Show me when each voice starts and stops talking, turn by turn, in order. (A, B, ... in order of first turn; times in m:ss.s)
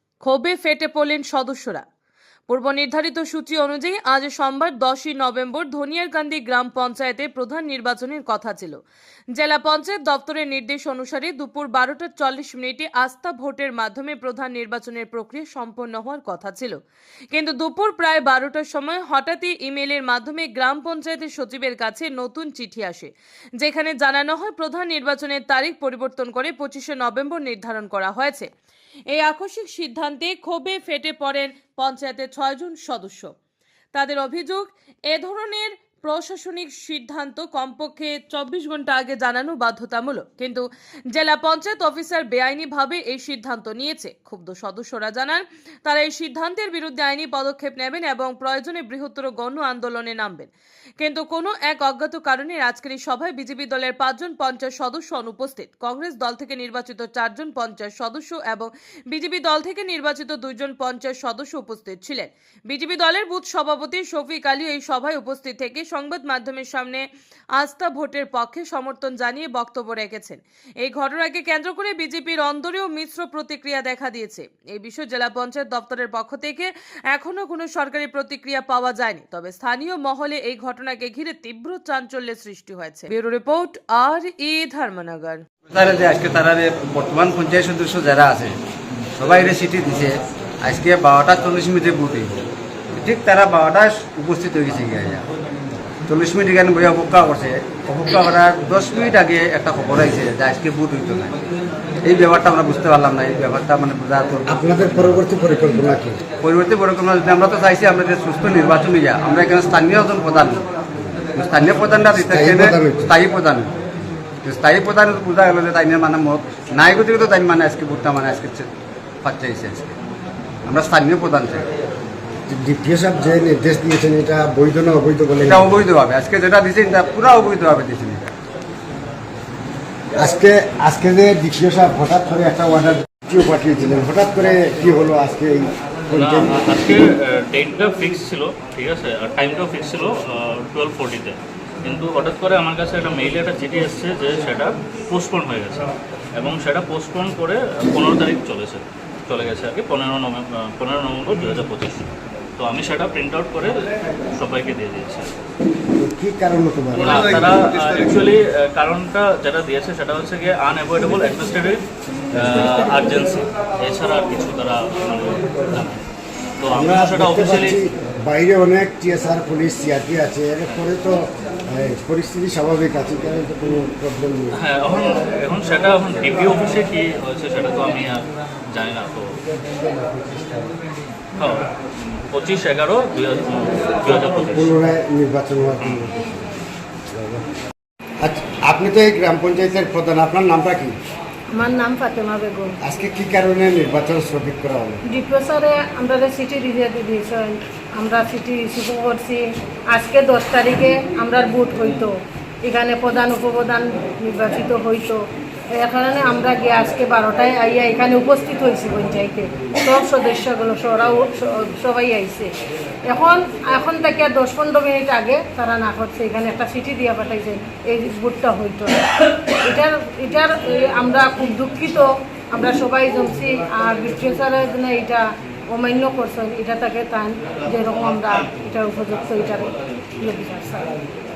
0:00.2-0:01.8 A
0:02.5-0:08.8 A
0:09.4-0:16.8 A
0:17.3-0:28.5 A
0:29.1-0:33.3 A
0:33.9-1:07.0 A
1:07.6-1:25.4 A
1:25.7-1:28.6 B
1:29.2-1:32.4 B
1:33.0-1:35.3 B
1:36.1-1:41.3 B
1:42.0-1:45.2 B
1:44.5-1:46.2 C
1:46.4-1:50.6 B
1:51.4-1:53.7 B
1:52.2-1:53.1 C
1:54.4-1:58.7 B
1:59.2-2:00.0 B
2:00.7-2:01.7 B
2:02.5-2:05.9 C
2:05.4-2:08.3 B
2:10.2-2:16.6 C
2:16.1-2:35.3 D
2:36.0-2:37.5 C
2:37.0-2:41.8 D
2:42.3-2:42.9 C
2:42.4-2:46.0 D
2:46.6-2:47.8 D
2:46.7-2:54.6 C
2:54.6-2:59.4 D
2:59.8-3:00.7 C
3:01.4-3:01.7 D
3:02.3-3:04.8 D
3:04.3-3:06.4 C
3:07.1-3:07.4 C
3:08.2-3:11.0 C
3:11.5-3:12.8 E
3:12.8-3:15.0 C
3:15.1-3:22.1 E
3:22.6-3:25.2 E
3:25.8-3:32.5 E
3:33.1-3:39.1 E
3:39.6-3:51.0 E